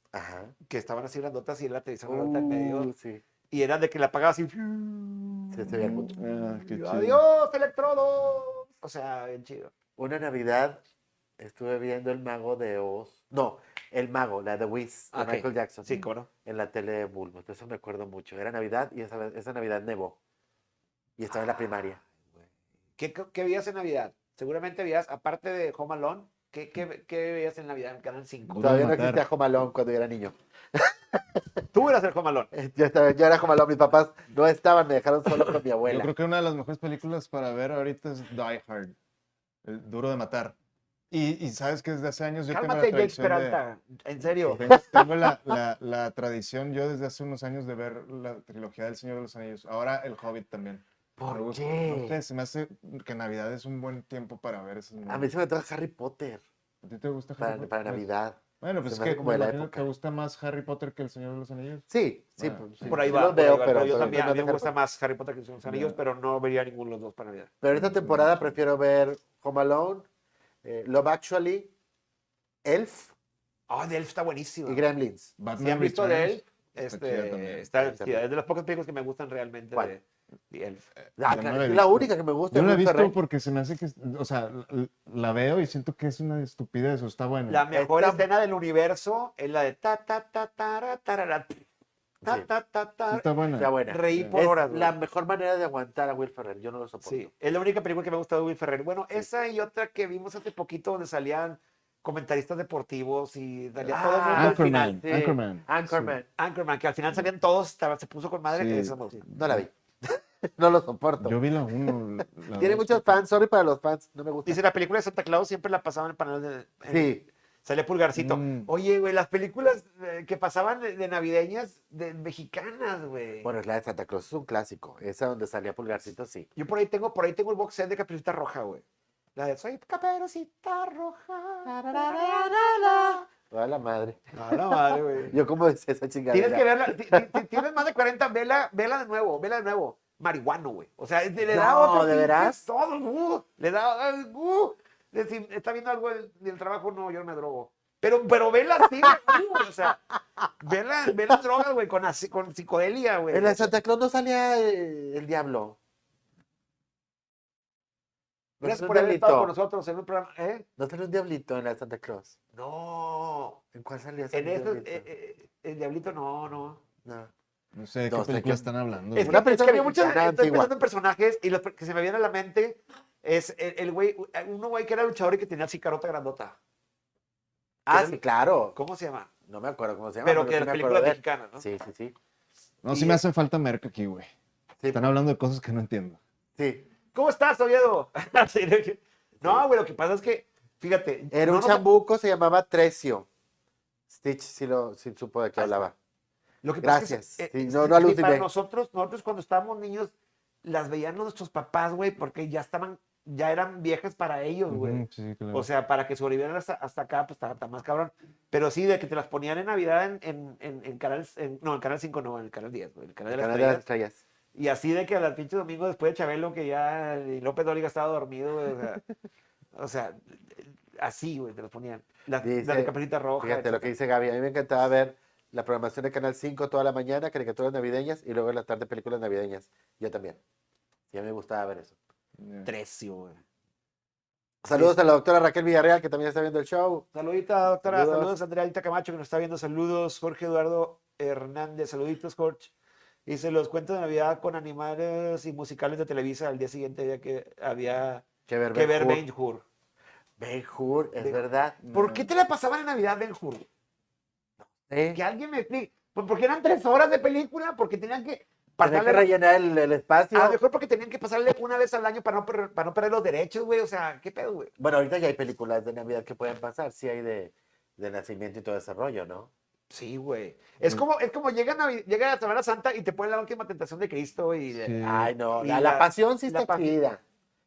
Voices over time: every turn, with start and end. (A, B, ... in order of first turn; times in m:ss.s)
0:00.1-0:00.5 A
0:00.7-0:02.9 B
0:02.0-0:03.2 A
0:03.5-0:05.7 B
0:05.5-0:06.2 A
0:05.7-0:07.2 C
0:06.6-0:09.7 B
0:10.0-0:10.8 A
0:11.4-0:15.9 A
0:15.1-0:16.3 B
0:16.4-0:20.2 A
0:21.2-0:22.0 A
0:21.3-0:22.0 B
0:23.0-0:28.8 B
0:28.5-0:29.2 C
0:28.6-0:31.6 A
0:31.7-0:32.5 B
0:32.5-0:36.1 A
0:35.8-0:38.9 C
0:39.6-0:40.6 C
0:41.1-0:43.6 C
0:42.5-0:44.6 B
0:44.4-0:55.3 C
0:44.7-0:45.0 A
0:51.2-0:52.2 A
0:55.0-0:56.4 A
0:56.8-0:58.0 C
0:57.4-0:59.8 A
0:58.6-1:03.2 C
1:01.9-1:04.7 A
1:02.9-1:07.5 B
1:03.8-1:04.2 C
1:05.6-1:06.0 C
1:07.6-1:10.0 A
1:07.7-1:08.5 C
1:10.6-1:11.7 A
1:12.6-1:13.1 A
1:13.7-1:14.8 B
1:14.6-1:15.3 A
1:15.4-1:17.7 C
1:15.6-1:20.9 B
1:17.8-1:18.2 A
1:21.2-1:27.6 C
1:21.2-1:23.2 A
1:27.5-1:31.6 B
1:27.7-1:28.2 A
1:32.2-1:32.5 A
1:32.2-1:33.3 B
1:33.1-1:34.4 C
1:33.6-1:37.3 A
1:33.9-1:34.9 B
1:37.0-1:45.0 B
1:43.8-1:46.3 A
1:44.3-1:46.2 C
1:46.4-1:49.2 B
1:48.5-1:49.6 C
1:49.3-1:51.4 A
1:51.2-1:53.2 C
1:52.6-1:54.6 A
1:54.4-1:57.1 B
1:56.9-1:57.2 A
1:57.6-2:03.5 B
1:58.1-1:58.7 C
2:03.4-2:06.5 A
2:06.6-2:08.8 B
2:09.4-2:13.2 B
2:11.6-2:17.4 A
2:14.3-2:15.4 B
2:16.3-2:30.0 B
2:21.4-2:22.6 A
2:29.0-2:29.4 A
2:30.6-2:33.7 B
2:33.3-2:35.8 A
2:38.6-2:39.5 A
2:38.6-2:40.6 B
2:40.8-2:42.3 A
2:42.5-2:43.6 B
2:43.7-2:45.0 A
2:44.3-2:46.8 B
2:47.0-2:47.3 A
2:47.7-2:49.4 C
2:48.1-2:48.6 A
2:49.1-2:56.6 B
2:49.2-2:50.7 A
2:57.8-2:58.8 A
2:57.9-2:58.2 B
2:58.7-2:59.3 B
2:59.5-3:02.1 A
3:00.2-3:01.6 B
3:02.8-3:04.3 C
3:02.9-3:03.2 B
3:04.9-3:06.2 C
3:06.6-3:06.8 A
3:07.1-3:11.8 B
3:11.3-3:13.3 A
3:14.1-3:15.9 A
3:15.6-3:15.9 B
3:16.6-3:33.8 B
3:16.8-3:18.5 A
3:24.7-3:25.6 C
3:33.3-3:34.2 A
3:34.5-3:39.0 B
3:39.7-3:43.9 B
3:42.4-3:50.4 A
3:51.1-3:52.0 A
3:52.4-3:52.7 C
3:52.6-3:53.4 B
3:54.6-3:57.0 A
3:54.6-3:55.0 B
3:57.1-4:02.7 B
3:57.8-3:58.3 A
4:03.2-4:09.6 B
4:08.5-4:09.2 A
4:10.4-4:11.8 A
4:11.2-4:13.6 B
4:11.8-4:12.3 C
4:14.6-4:15.2 A
4:15.1-4:19.3 B
4:18.8-4:20.6 A
4:20.3-4:24.7 B
4:24.8-4:29.5 A
4:29.9-4:35.0 B
4:34.7-4:35.3 C
4:35.0-4:37.2 A
4:35.5-4:36.9 B